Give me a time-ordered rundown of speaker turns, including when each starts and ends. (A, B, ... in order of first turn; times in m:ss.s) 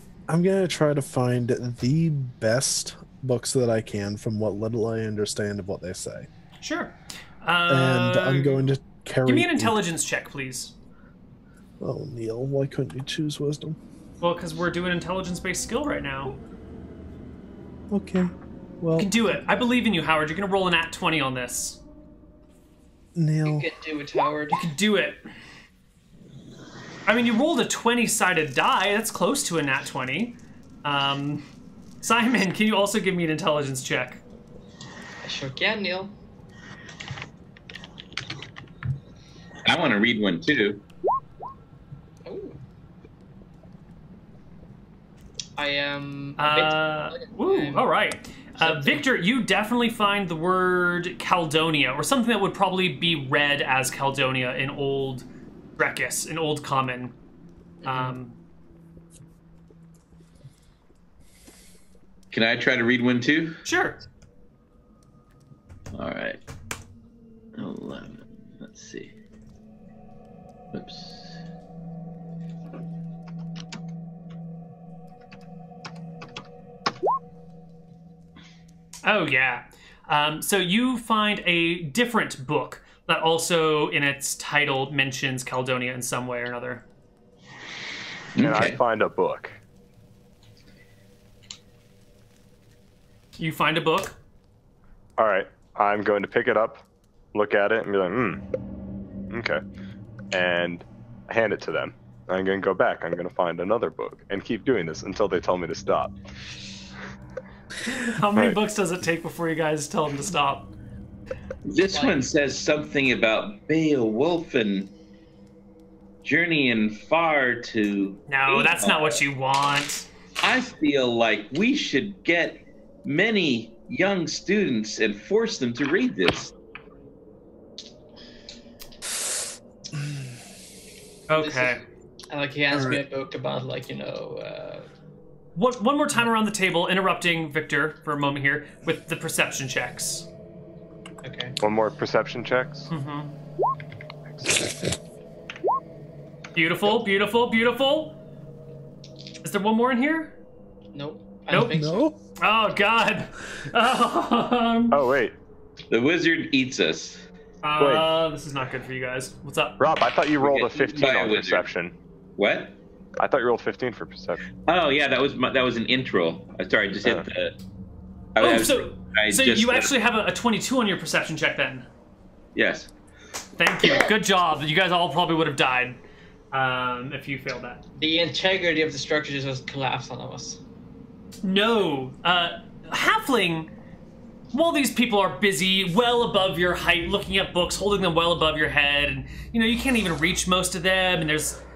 0:00.3-0:06.3 A
0:06.6-0:08.7 B
0:07.7-0:09.8 A
0:09.2-0:10.7 B
0:11.8-0:13.8 A
0:14.2-0:16.4 B
0:17.9-0:19.4 A
0:19.0-0:21.8 B
0:23.1-0:23.6 A
0:23.4-0:24.7 C
0:24.6-0:25.2 B
0:27.0-0:31.4 B
0:32.0-0:34.2 B
0:35.2-0:36.1 C
0:39.6-0:40.8 D
0:42.2-0:42.6 C
0:45.6-0:47.9 C
0:46.4-0:55.2 B
0:48.6-0:49.0 C
0:55.8-0:57.1 B
0:57.8-0:58.2 C
0:57.8-0:58.4 B
1:02.3-1:03.6 D
1:03.6-1:04.0 B
1:05.9-1:06.4 D
1:07.5-1:09.1 D
1:10.7-1:11.4 D
1:19.0-1:26.8 B
1:28.4-1:28.8 D
1:28.4-1:29.5 E
1:33.4-1:34.2 B
1:35.2-1:36.8 E
1:37.3-1:38.4 E
1:39.3-1:39.6 E
1:40.3-1:46.1 E
1:47.8-1:50.7 B
1:51.6-1:54.9 D
1:51.9-1:52.2 C
1:56.2-1:59.2 D
1:58.3-2:00.1 B
2:00.4-2:06.5 D
2:11.3-2:11.8 B
2:11.4-2:14.9 C
2:12.7-2:13.0 A
2:15.5-2:20.3 B
2:21.2-2:21.6 C
2:21.6-2:22.9 E
2:22.9-2:23.3 B
2:24.4-2:24.6 E
2:26.5-2:28.1 B
2:29.4-2:30.3 B
2:30.9-2:32.0 C
2:31.5-2:31.8 B
2:31.7-2:32.2 A
2:32.4-2:35.0 B
2:34.9-2:35.3 E
2:35.9-2:37.3 D
2:37.6-2:39.8 B
2:37.8-2:38.0 E
2:39.8-2:41.9 E
2:40.4-2:41.6 D
2:42.4-2:42.8 D
2:43.2-2:44.4 E
2:44.7-2:47.5 D
2:48.3-2:49.9 D
2:48.4-2:51.9 B
2:52.5-2:52.9 D
2:53.6-2:56.0 B
2:56.5-2:57.8 B
2:58.0-3:00.6 C
3:01.4-3:03.7 B
3:04.5-3:11.6 B